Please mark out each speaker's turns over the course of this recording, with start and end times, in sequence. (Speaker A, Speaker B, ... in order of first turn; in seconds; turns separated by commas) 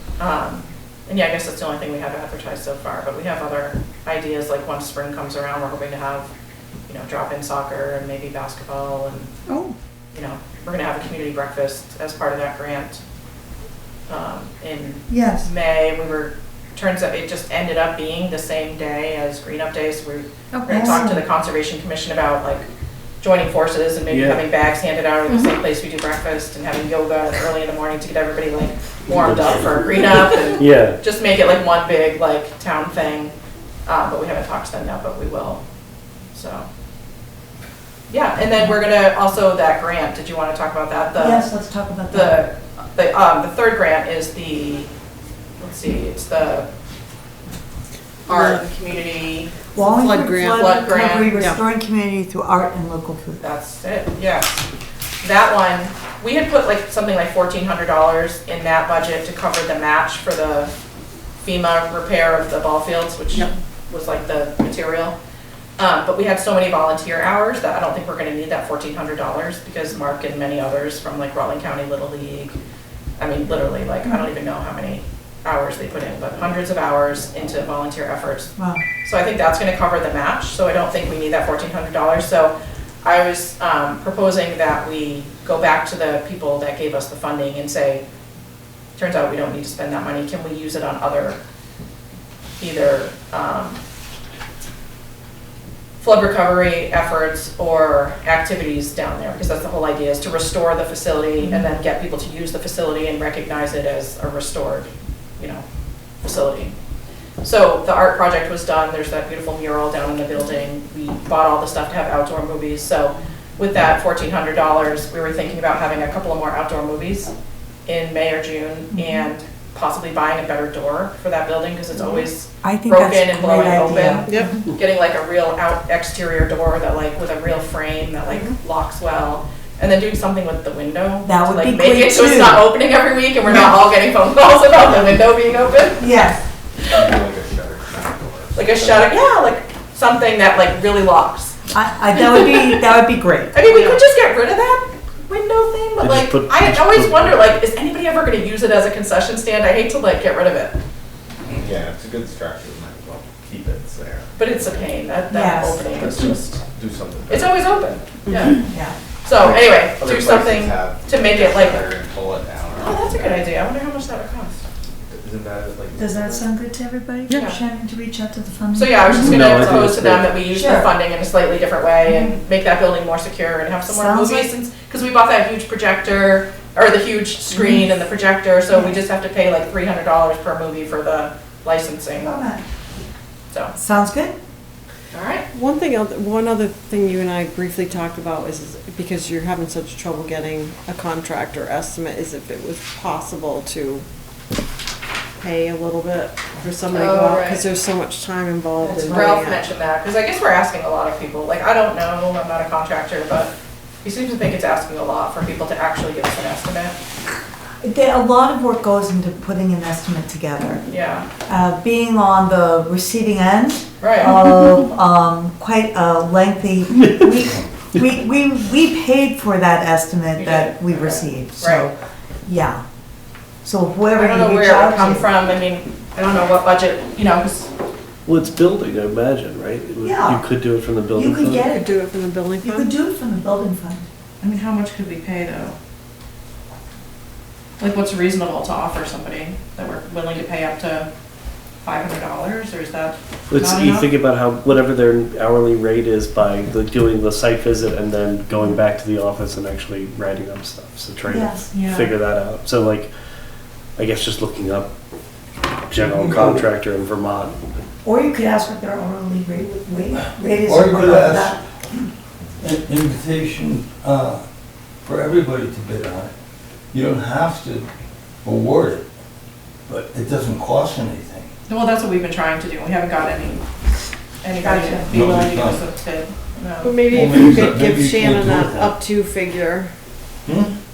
Speaker A: 0.2-6.3, Speaker A: 6.9-9.3, Speaker B: 9.5-9.7, Speaker A: 10.1-13.0, Speaker A: 14.1-22.7, Speaker B: 15.1-15.5, Speaker B: 20.5-21.2, Speaker A: 23.2-33.3, Speaker C: 24.1-24.4, Speaker C: 29.1-29.9, Speaker C: 30.6-31.0, Speaker A: 33.9-35.6, Speaker A: 36.3-36.7, Speaker A: 38.1-41.5, Speaker B: 41.2-42.4, Speaker A: 42.1-44.9, Speaker A: 45.6-46.7, Speaker D: 48.3-48.6, Speaker A: 48.3-49.5, Speaker B: 49.7-53.4, Speaker D: 49.8-50.7, Speaker A: 50.6-51.3, Speaker D: 51.2-51.6, Speaker A: 53.4-54.6, Speaker A: 55.2-60.7, Speaker A: 61.4-65.1, Speaker A: 65.8-72.6, Speaker A: 73.2-78.5, Speaker B: 78.6-78.8, Speaker A: 79.0-88.0, Speaker A: 89.0-91.4, Speaker A: 92.6-93.8, Speaker A: 96.0-104.9, Speaker B: 101.4-101.7, Speaker A: 105.4-105.6, Speaker A: 106.2-106.7, Speaker A: 107.4-117.3, Speaker A: 117.9-136.2, Speaker B: 118.9-119.3, Speaker B: 122.6-124.6, Speaker B: 131.2-132.7, Speaker B: 133.4-133.8, Speaker B: 136.0-136.4, Speaker E: 137.0-139.0, Speaker A: 138.6-141.6, Speaker B: 141.7-143.9, Speaker A: 142.2-142.7, Speaker A: 143.5-150.8, Speaker C: 146.0-147.6, Speaker E: 151.5-154.3, Speaker A: 154.4-156.6, Speaker B: 155.3-156.0, Speaker E: 156.7-157.5, Speaker A: 157.3-158.6, Speaker D: 158.3-158.6, Speaker B: 158.7-159.0, Speaker A: 159.2-161.9, Speaker E: 159.4-163.3, Speaker A: 162.8-164.6, Speaker E: 165.1-166.4, Speaker B: 166.0-169.7, Speaker A: 167.3-167.6, Speaker A: 168.8-182.4, Speaker C: 169.2-170.3, Speaker B: 170.5-170.9, Speaker B: 172.1-172.3, Speaker B: 173.9-174.5, Speaker B: 177.5-177.8, Speaker B: 182.1-182.7, Speaker B: 183.8-184.4, Speaker A: 185.1-185.5, Speaker D: 185.5-194.1, Speaker D: 195.4-199.7, Speaker A: 196.9-197.7, Speaker B: 198.8-199.4, Speaker A: 199.1-203.5, Speaker A: 204.0-206.9, Speaker B: 207.8-210.8, Speaker A: 210.9-211.3, Speaker B: 211.5-221.9, Speaker A: 214.0-214.3, Speaker A: 220.4-221.9, Speaker B: 222.5-222.8, Speaker B: 223.6-225.3, Speaker A: 224.2-227.7, Speaker C: 228.3-231.6, Speaker B: 230.0-230.4, Speaker B: 231.1-231.9, Speaker D: 231.6-232.9, Speaker B: 232.6-234.1, Speaker A: 234.4-235.8, Speaker A: 237.8-241.1, Speaker A: 241.8-244.1, Speaker C: 243.5-253.1, Speaker B: 251.3-251.8, Speaker A: 251.7-252.1, Speaker C: 254.0-254.9, Speaker C: 255.9-257.7, Speaker F: 256.0-256.7, Speaker B: 258.0-262.1, Speaker F: 260.6-261.6, Speaker F: 262.6-264.4, Speaker F: 265.1-266.3, Speaker F: 266.9-267.9, Speaker F: 268.4-269.1, Speaker F: 269.9-271.5, Speaker A: 271.7-273.6, Speaker A: 274.4-277.0, Speaker B: 274.6-275.3, Speaker F: 275.1-275.8, Speaker D: 276.8-279.9, Speaker F: 277.1-279.0, Speaker F: 280.5-280.7